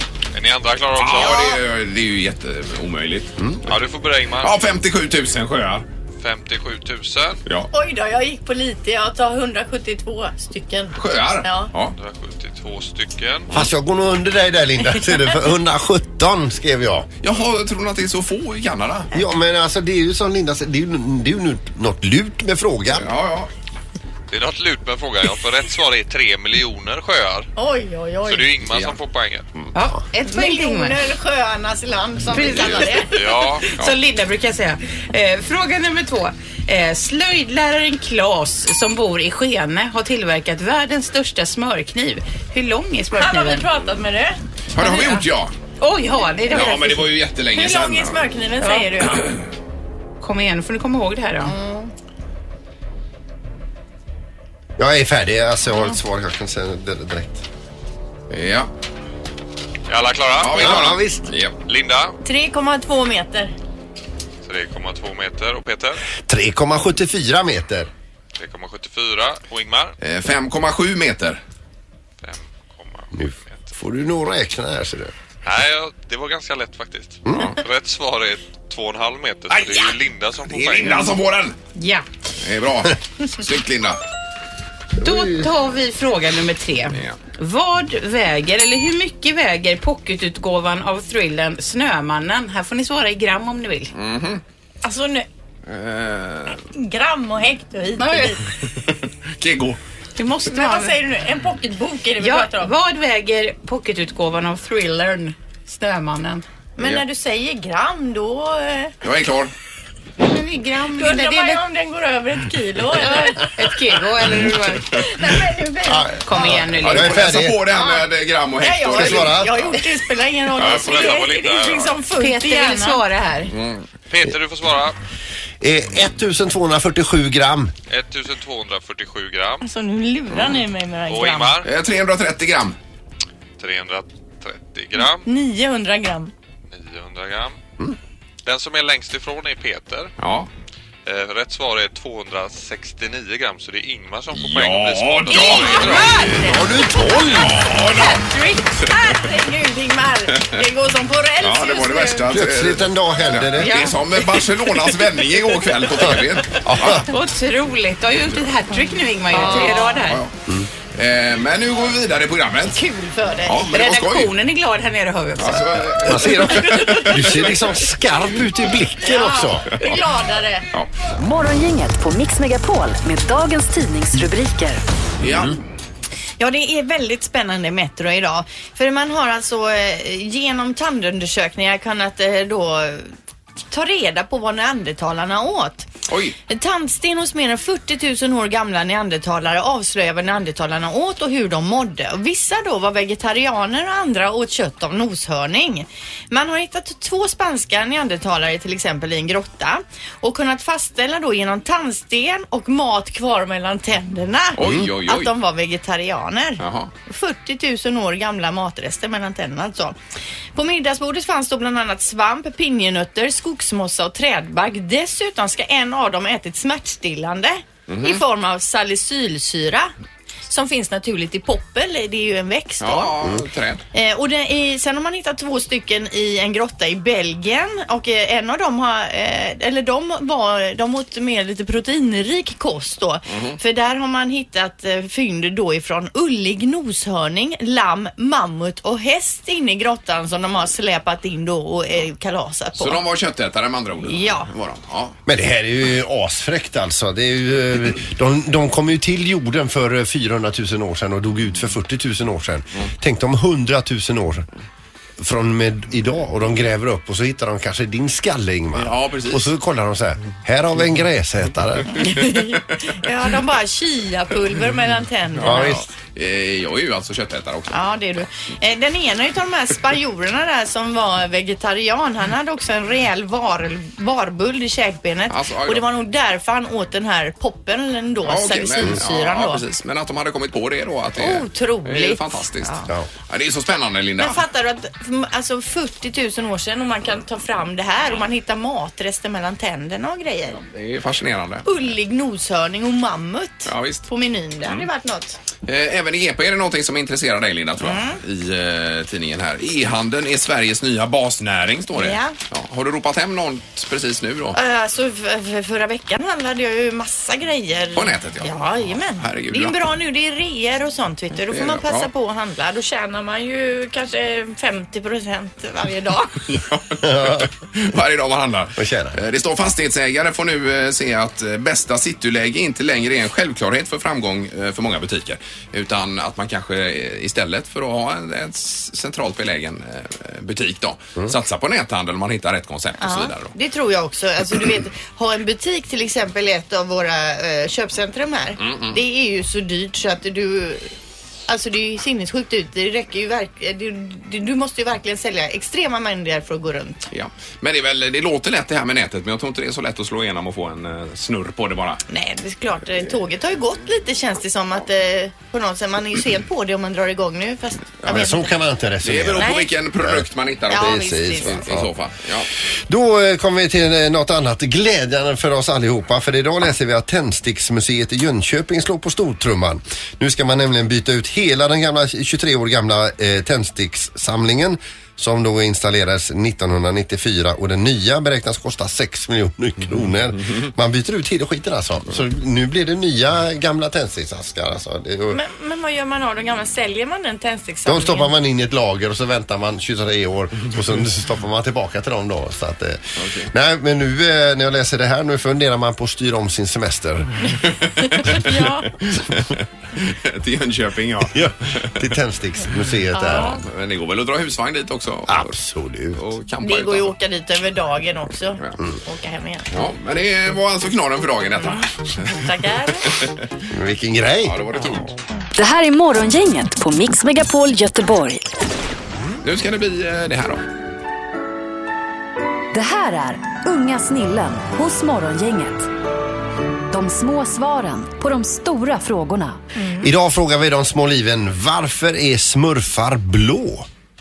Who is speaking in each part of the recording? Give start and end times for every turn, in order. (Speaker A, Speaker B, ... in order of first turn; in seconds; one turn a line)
Speaker A: 0.3-1.6
Speaker B: 1.0-3.4
Speaker A: 3.6-4.5
Speaker B: 4.4-5.8
Speaker A: 6.2-7.4
Speaker C: 7.7-11.7
Speaker B: 10.9-11.9
Speaker A: 11.9-13.5
Speaker D: 13.5-17.1
Speaker B: 17.2-19.1
Speaker D: 19.1-23.1
Speaker B: 22.9-23.5
Speaker A: 24.3-27.5
Speaker C: 27.6-28.5
Speaker A: 28.3-29.5
Speaker B: 28.7-28.9
Speaker E: 29.7-31.0
Speaker C: 30.2-33.1
Speaker B: 32.4-32.9
Speaker A: 33.1-33.7
Speaker E: 33.7-43.6
Speaker C: 43.1-45.2
Speaker B: 44.7-45.5
Speaker E: 45.8-47.1
Speaker B: 46.5-48.2
Speaker C: 47.5-49.3
Speaker E: 48.6-48.9
Speaker E: 50.2-51.5
Speaker C: 51.5-51.9
Speaker D: 54.8-57.4
Speaker B: 58.3-58.7
Speaker A: 59.9-60.9
Speaker B: 60.4-61.5
Speaker D: 60.5-61.2
Speaker A: 61.7-62.2
Speaker C: 62.2-63.5
Speaker A: 64.4-66.0
Speaker D: 66.3-67.9
Speaker A: 68.3-69.9
Speaker B: 70.0-71.4
Speaker A: 72.2-73.6
Speaker D: 73.1-75.1
Speaker A: 75.4-81.2
Speaker B: 79.5-81.5
Speaker E: 81.7-82.0
Speaker B: 82.4-84.0
Speaker E: 85.0-93.9
Speaker B: 86.9-87.2
Speaker B: 93.9-94.4
Speaker C: 94.8-95.2
Speaker B: 95.7-96.6
Speaker C: 96.7-98.4
Speaker E: 98.0-98.4
Speaker B: 99.4-99.8
Speaker E: 100.2-101.0
Speaker C: 100.5-102.7
Speaker E: 102.2-106.5
Speaker C: 106.8-108.9
Speaker B: 109.0-109.5
Speaker E: 110.2-111.6
Speaker C: 110.9-113.5
Speaker E: 112.9-115.1
Speaker C: 114.9-116.5
Speaker D: 115.8-117.6
Speaker E: 116.2-117.2
Speaker B: 116.8-119.6
Speaker C: 117.7-118.0
Speaker C: 118.6-123.0
Speaker D: 118.9-119.7
Speaker A: 120.5-122.0
Speaker B: 120.6-121.0
Speaker E: 122.2-123.5
Speaker B: 123.5-123.8
Speaker A: 124.1-124.9
Speaker D: 125.6-127.7
Speaker A: 127.9-129.6
Speaker C: 129.6-131.6
Speaker A: 131.1-131.7
Speaker B: 131.6-132.8
Speaker A: 133.6-135.2
Speaker C: 135.2-136.3
Speaker A: 136.7-137.6
Speaker A: 138.4-140.1
Speaker B: 140.2-140.5
Speaker A: 141.1-146.3
Speaker B: 144.3-146.1
Speaker C: 145.3-146.6
Speaker D: 146.3-147.6
Speaker B: 147.3-148.2
Speaker C: 147.7-152.3
Speaker B: 151.4-157.1
Speaker D: 152.3-153.9
Speaker D: 156.0-157.1
Speaker E: 157.1-160.2
Speaker C: 159.3-160.0
Speaker B: 159.3-160.3
Speaker B: 160.9-162.8
Speaker C: 162.7-163.7
Speaker B: 163.4-164.3
Speaker E: 163.7-165.7
Speaker B: 165.4-167.7
Speaker D: 166.1-169.7
Speaker C: 169.0-170.6
Speaker B: 169.7-170.0
Speaker F: 171.2-174.8
Speaker B: 175.2-175.6
Speaker C: 176.4-183.1
Speaker C: 183.7-185.9
Speaker B: 186.1-186.3
Speaker C: 186.5-209.9
Speaker B: 204.6-205.3
Speaker D: 204.6-204.9
Speaker B: 206.6-206.9
Speaker C: 210.5-219.9
Speaker B: 217.9-218.2
Speaker C: 220.5-223.1
Speaker B: 222.8-223.8
Speaker C: 223.9-243.0
Speaker B: 233.3-233.6
Speaker B: 242.8-245.2
Speaker C: 244.1-244.5
Speaker D: 245.2-254.5
Speaker D: 255.2-262.1
Speaker B: 258.7-259.5
Speaker C: 262.0-265.8
Speaker B: 265.4-267.7
Speaker D: 265.4-265.9
Speaker C: 267.7-279.6
Speaker B: 275.3-275.8
Speaker B: 278.2-284.4
Speaker C: 281.2-282.9
Speaker C: 284.2-290.6
Speaker B: 290.5-291.7
Speaker C: 291.6-295.4
Speaker B: 293.6-294.1
Speaker B: 295.6-304.6
Speaker C: 297.8-298.2
Speaker C: 301.9-302.4
Speaker C: 304.5-316.4
Speaker B: 307.9-308.6
Speaker B: 309.1-309.8
Speaker B: 311.5-312.1
Speaker B: 316.5-333.5
Speaker D: 317.0-317.5
Speaker D: 318.8-319.2
Speaker C: 333.0-340.9
Speaker B: 338.6-339.0
Speaker C: 341.5-347.1
Speaker B: 347.1-352.0
Speaker C: 352.1-358.5
Speaker D: 358.1-361.9
Speaker B: 359.0-362.5
Speaker C: 359.4-359.7
Speaker C: 360.7-361.6
Speaker D: 362.9-385.4
Speaker C: 385.3-388.3
Speaker D: 387.9-397.4
Speaker B: 393.2-393.5
Speaker B: 397.6-401.9
Speaker C: 398.3-398.9
Speaker D: 401.3-403.6
Speaker C: 403.1-403.6
Speaker B: 403.4-405.5
Speaker D: 405.3-406.2
Speaker B: 406.1-407.1
Speaker C: 406.6-409.7
Speaker B: 409.7-412.4
Speaker C: 412.3-413.1
Speaker D: 413.7-414.6
Speaker B: 414.4-415.1
Speaker F: 415.6-418.4
Speaker B: 419.4-420.6
Speaker F: 422.7-425.9
Speaker F: 426.9-429.6
Speaker C: 429.8-430.1
Speaker D: 430.0-433.9